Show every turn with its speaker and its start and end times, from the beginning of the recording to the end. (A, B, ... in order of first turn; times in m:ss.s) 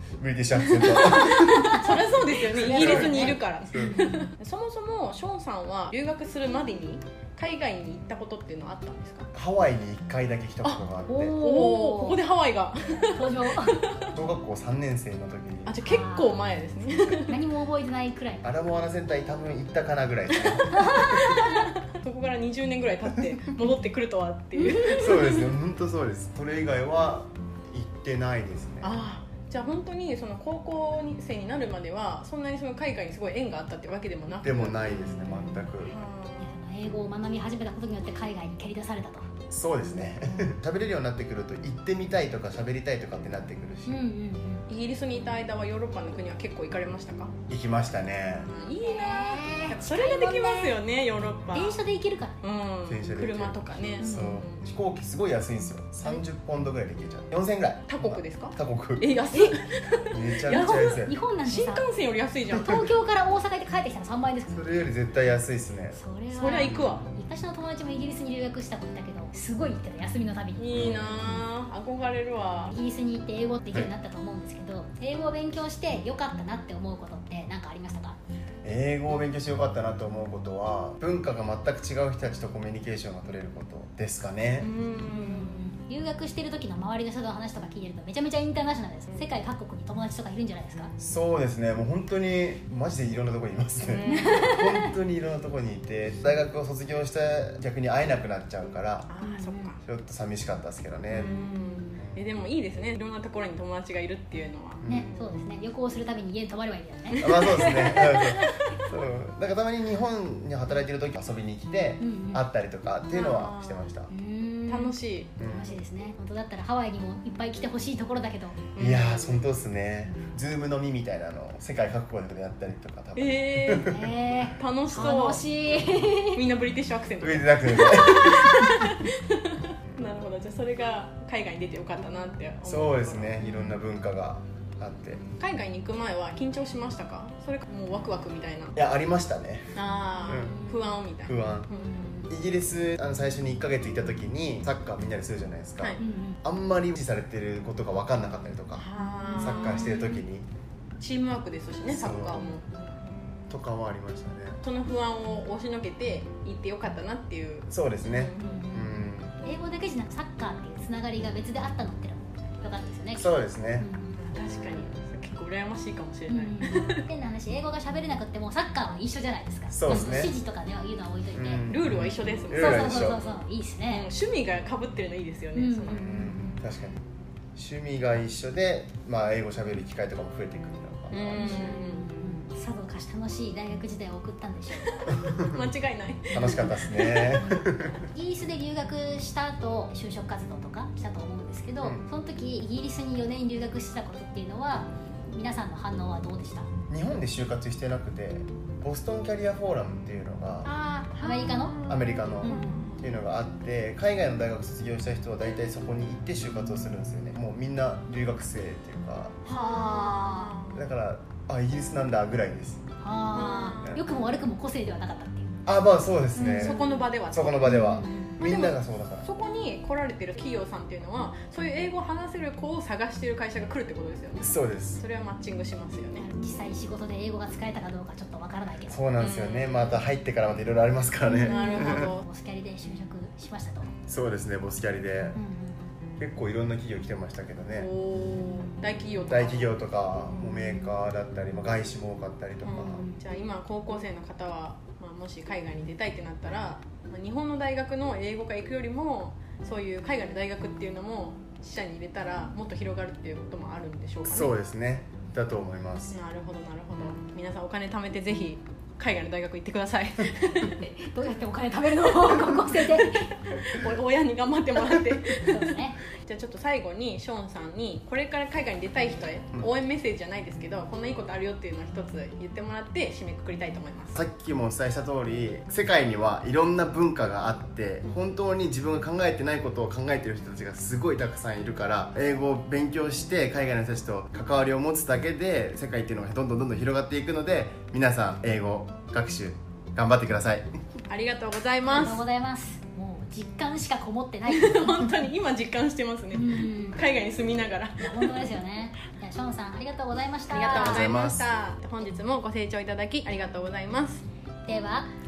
0:00.2-0:01.9 A
0:00.6-0:09.3 B
0:01.2-0:01.9 C
0:02.5-0:04.2 C
0:02.5-0:04.1 A
0:09.3-0:11.4 A
0:11.0-0:12.2 C
0:11.4-0:14.1 B
0:13.0-0:13.8 C
0:14.1-0:15.8 A
0:15.6-0:17.4 B
0:15.8-0:16.4 C
0:17.1-0:18.4 C
0:18.4-0:21.3 A
0:20.7-0:21.5 C
0:21.2-0:25.5 B
0:24.8-0:29.0 A
0:28.8-0:34.8 B
0:34.4-0:35.9 A
0:35.0-0:35.6 C
0:35.8-0:36.5 B
0:36.4-0:39.3 C
0:39.5-0:44.0 A
0:43.8-0:44.7 C
0:44.7-0:47.3 B
0:47.5-0:48.5 A
0:48.3-0:51.8 B
0:48.8-0:50.8 C
0:51.5-0:52.4 C
0:52.4-0:54.6 B
0:52.9-0:59.1 A
0:54.0-0:54.4 C
0:57.9-1:02.9 B
1:00.1-1:01.2 A
1:00.5-1:01.8 C
1:02.6-1:04.6 C
1:04.5-1:06.0 A
1:05.9-1:10.7 C
1:06.3-1:07.1 B
1:06.7-1:07.0 A
1:10.6-1:12.7 B
1:10.7-1:11.4 A
1:12.7-1:18.2 C
1:18.6-1:24.7 A
1:24.6-1:25.7 B
1:25.0-1:30.9 C
1:31.0-1:39.1 A
1:33.8-1:34.5 B
1:34.1-1:34.9 C
1:39.1-1:39.8 B
1:39.2-1:39.7 C
1:39.8-1:41.3 A
1:41.1-1:45.3 B
1:41.2-1:42.0 C
1:42.0-1:42.2 A
1:44.8-1:45.1 A
1:44.9-1:48.1 C
1:47.2-1:48.5 B
1:47.2-1:54.1 A
1:52.0-1:52.4 C
1:53.1-1:53.9 B
1:54.1-1:58.7 C
1:54.7-1:55.3 B
1:55.4-1:55.8 A
1:58.7-1:59.4 B
1:58.8-2:04.1 A
2:03.2-2:03.9 B
2:03.8-2:06.4 C
2:04.6-2:05.4 B
2:06.3-2:13.4 B
2:07.2-2:08.6 A
2:12.6-2:15.2 A
2:15.4-2:18.8 B
2:18.7-2:20.6 A
2:19.7-2:22.2 B
2:20.4-2:20.9 C
2:21.2-2:21.7 A
2:21.7-2:22.3 C
2:22.3-2:28.8 A
2:26.0-2:26.4 C
2:28.8-2:30.2 B
2:29.0-2:29.7 C
2:29.4-2:30.5 A
2:31.0-2:33.2 B
2:31.9-2:32.5 A
2:33.5-2:34.6 A
2:34.6-2:38.6 B
2:37.7-2:39.4 A
2:38.4-2:44.2 C
2:43.2-2:43.9 A
2:44.2-2:47.0 B
2:46.3-2:51.6 C
2:49.7-2:50.3 A
2:49.9-2:50.2 B
2:51.3-2:53.2 A
2:51.7-2:53.2 B
2:52.6-2:54.1 C
2:53.9-2:56.0 B
2:55.5-2:56.6 C
2:55.9-2:57.0 A
2:57.5-3:01.4 A
3:01.1-3:02.3 B
3:01.3-3:05.3 C
3:05.1-3:07.4 B
3:06.3-3:08.0 A
3:06.4-3:06.7 C
3:07.4-3:16.7 C
3:11.8-3:12.0 A
3:16.9-3:20.7 A
3:20.6-3:23.1 B
3:21.2-3:21.8 C
3:21.8-3:29.4 A
3:22.4-3:22.9 C
3:29.4-3:30.8 B
3:29.5-3:30.5 C
3:30.7-3:32.8 A
3:33.0-3:35.6 C
3:33.3-3:34.0 B
3:35.6-3:36.8 A
3:36.4-3:37.0 C
3:36.5-3:37.7 B
3:37.3-3:39.2 A
3:37.6-3:38.3 C
3:38.4-3:46.3 B
3:44.4-3:45.0 A
3:46.2-3:49.0 C
3:48.9-3:52.1 A
3:49.2-3:49.8 B
3:51.2-3:53.9 C
3:51.4-3:52.2 B
3:54.1-3:55.4 A
3:55.3-3:55.9 C
3:56.2-3:57.9 A
3:57.7-3:59.8 B
3:59.3-4:03.0 A
4:02.6-4:14.5 B
4:02.8-4:03.2 C
4:14.2-4:16.2 A
4:16.1-4:20.8 B
4:20.6-4:23.3 C
4:22.3-4:34.2 B
4:25.3-4:26.0 C
4:34.1-4:50.7 A
4:51.1-4:52.2 B
4:51.8-4:55.1 C
4:54.5-4:58.6 B
4:56.3-4:57.0 C
4:58.0-5:01.1 C
5:00.5-5:04.2 B
5:00.7-5:01.4 A
5:04.6-5:05.1 C